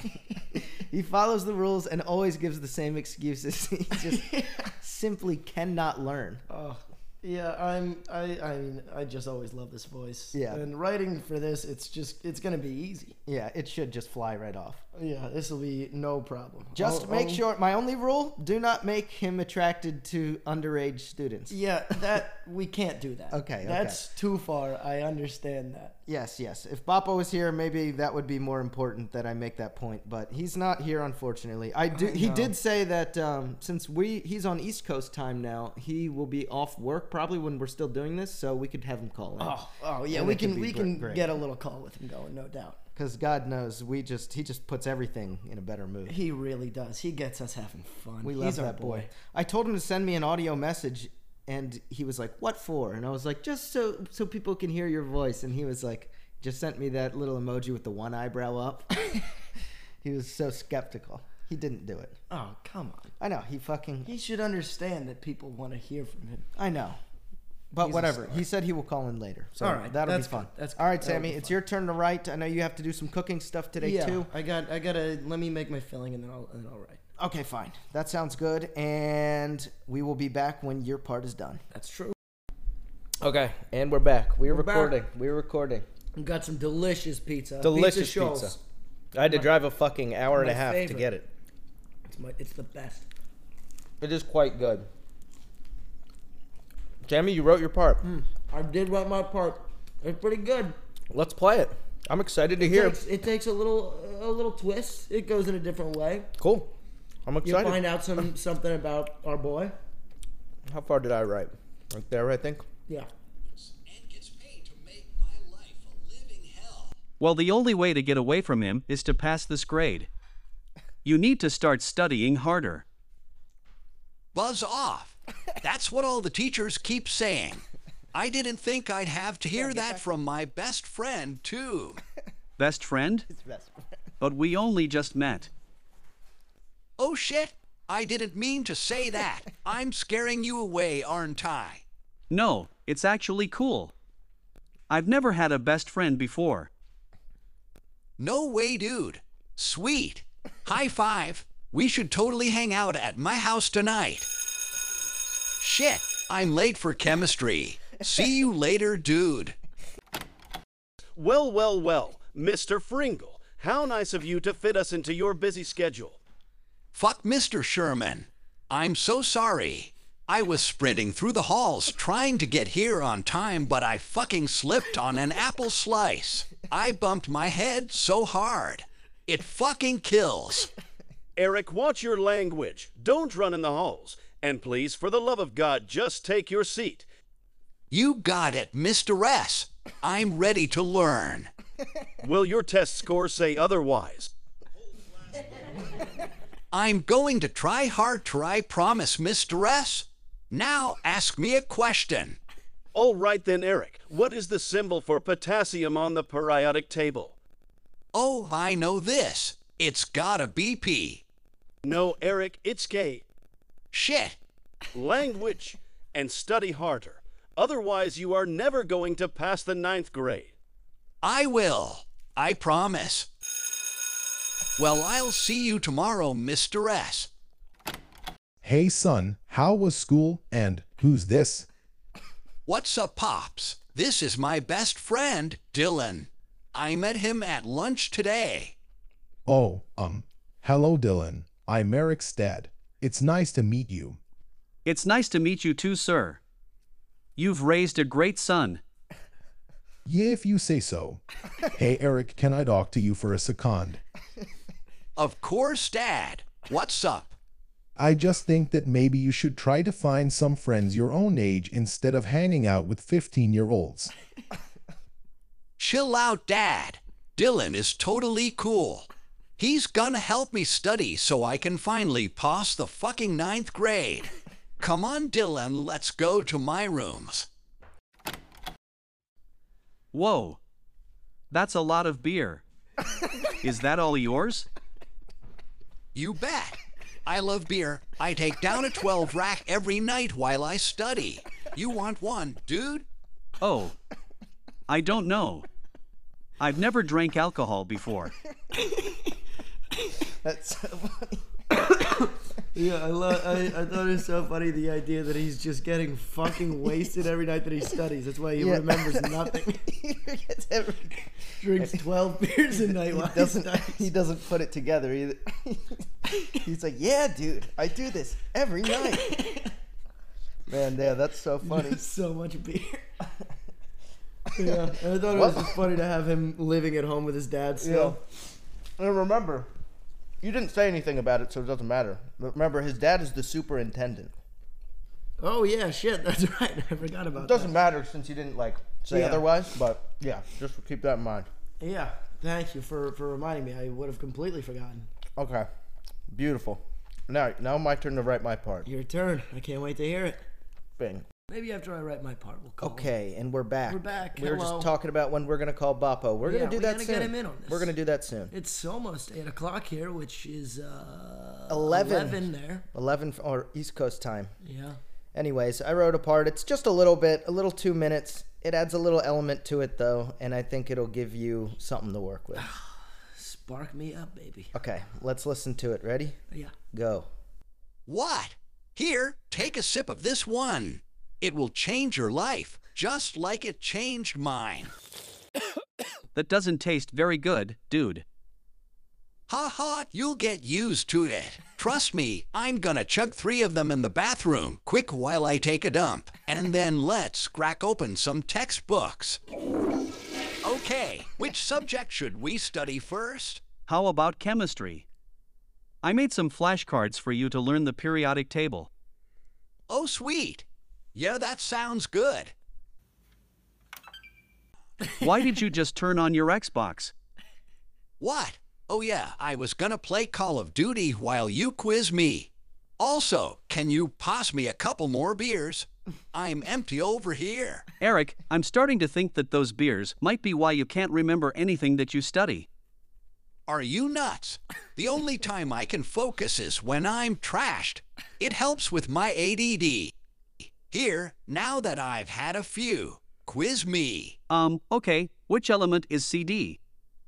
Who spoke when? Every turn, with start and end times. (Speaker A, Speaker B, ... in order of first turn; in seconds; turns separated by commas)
Speaker A: 0.8-6.4, Speaker B: 4.0-4.7, Speaker B: 6.5-13.2, Speaker A: 10.3-10.6, Speaker A: 13.3-14.8, Speaker B: 14.9-17.4, Speaker A: 16.7-21.6, Speaker B: 21.5-26.0, Speaker A: 23.3-24.0, Speaker A: 26.1-41.3, Speaker B: 31.9-32.5, Speaker B: 39.4-42.8, Speaker A: 43.0-46.2, Speaker B: 46.1-49.1, Speaker A: 48.2-59.1, Speaker A: 60.0-62.2, Speaker B: 62.3-63.1, Speaker A: 63.2-64.1, Speaker B: 64.1-66.5, Speaker A: 66.6-67.0, Speaker A: 67.7-74.3, Speaker B: 67.8-68.4, Speaker B: 69.6-71.6, Speaker B: 73.8-77.0, Speaker A: 77.2-81.6, Speaker B: 81.7-82.2, Speaker A: 83.2-85.9, Speaker B: 84.5-85.0, Speaker B: 86.2-88.6, Speaker A: 87.6-88.6, Speaker A: 89.1-91.3, Speaker B: 90.3-91.1, Speaker B: 92.1-93.1, Speaker A: 94.0-94.9, Speaker A: 97.0-98.0, Speaker B: 98.0-100.8, Speaker A: 101.1-103.0, Speaker B: 102.6-106.3, Speaker A: 106.4-106.7, Speaker A: 107.2-107.8, Speaker B: 107.4-109.8, Speaker A: 110.7-112.7, Speaker C: 113.6-117.0, Speaker D: 117.2-120.1, Speaker D: 121.0-122.8, Speaker C: 124.3-132.0, Speaker A: 129.6-130.1, Speaker D: 132.6-133.3, Speaker A: 133.3-133.8, Speaker D: 134.2-135.5, Speaker C: 137.0-141.8, Speaker D: 142.3-143.9, Speaker D: 144.9-146.7, Speaker C: 148.2-154.3, Speaker C: 155.6-159.6, Speaker E: 161.2-166.2, Speaker C: 166.9-180.7, Speaker E: 181.4-187.1, Speaker C: 187.9-191.5, Speaker E: 192.2-194.3, Speaker C: 196.7-202.4, Speaker E: 202.9-207.4, Speaker C: 208.1-211.2, Speaker E: 211.8-213.2, Speaker C: 213.9-214.4, Speaker E: 214.9-220.5, Speaker C: 221.2-223.3, Speaker C: 224.8-227.3, Speaker F: 228.6-231.7, Speaker C: 232.7-238.8, Speaker F: 239.5-244.2, Speaker D: 244.8-246.4, Speaker D: 247.4-248.8, Speaker F: 250.1-254.0, Speaker C: 255.2-257.4, Speaker F: 258.0-264.1, Speaker C: 265.8-269.1, Speaker C: 269.6-277.5, Speaker D: 280.1-280.6, Speaker D: 281.5-282.6, Speaker D: 283.6-284.7, Speaker C: 286.1-293.1, Speaker D: 293.6-293.9, Speaker D: 294.9-295.7, Speaker D: 296.6-298.3, Speaker B: 298.8-299.2, Speaker A: 300.4-301.5, Speaker B: 301.8-309.8, Speaker A: 308.6-312.0, Speaker B: 311.6-314.1, Speaker A: 312.7-319.4, Speaker B: 319.1-319.7, Speaker A: 320.7-322.0, Speaker B: 321.6-323.1, Speaker B: 324.6-328.2, Speaker A: 324.6-325.8, Speaker A: 327.8-328.2, Speaker A: 329.0-329.7, Speaker A: 330.4-334.3, Speaker B: 335.4-337.7, Speaker A: 337.4-341.5, Speaker B: 339.1-339.5, Speaker B: 341.8-345.1, Speaker A: 345.4-345.7, Speaker A: 346.3-348.9, Speaker B: 348.9-350.4, Speaker A: 351.0-351.3, Speaker B: 351.5-353.1, Speaker A: 352.8-358.5, Speaker B: 353.9-354.9, Speaker B: 356.4-357.9, Speaker B: 358.5-362.9, Speaker A: 361.7-364.5, Speaker B: 364.6-365.0, Speaker A: 365.3-372.7, Speaker B: 372.6-374.7, Speaker A: 374.7-376.4, Speaker A: 376.9-377.3, Speaker C: 378.1-384.9, Speaker D: 386.4-388.2, Speaker C: 389.5-399.4, Speaker C: 400.6-403.7, Speaker D: 403.9-405.1, Speaker D: 406.0-408.9, Speaker C: 409.9-412.5, Speaker D: 415.2-417.1, Speaker C: 418.2-427.9, Speaker D: 428.0-432.7, Speaker C: 433.7-440.1, Speaker C: 440.9-444.4, Speaker D: 444.5-446.8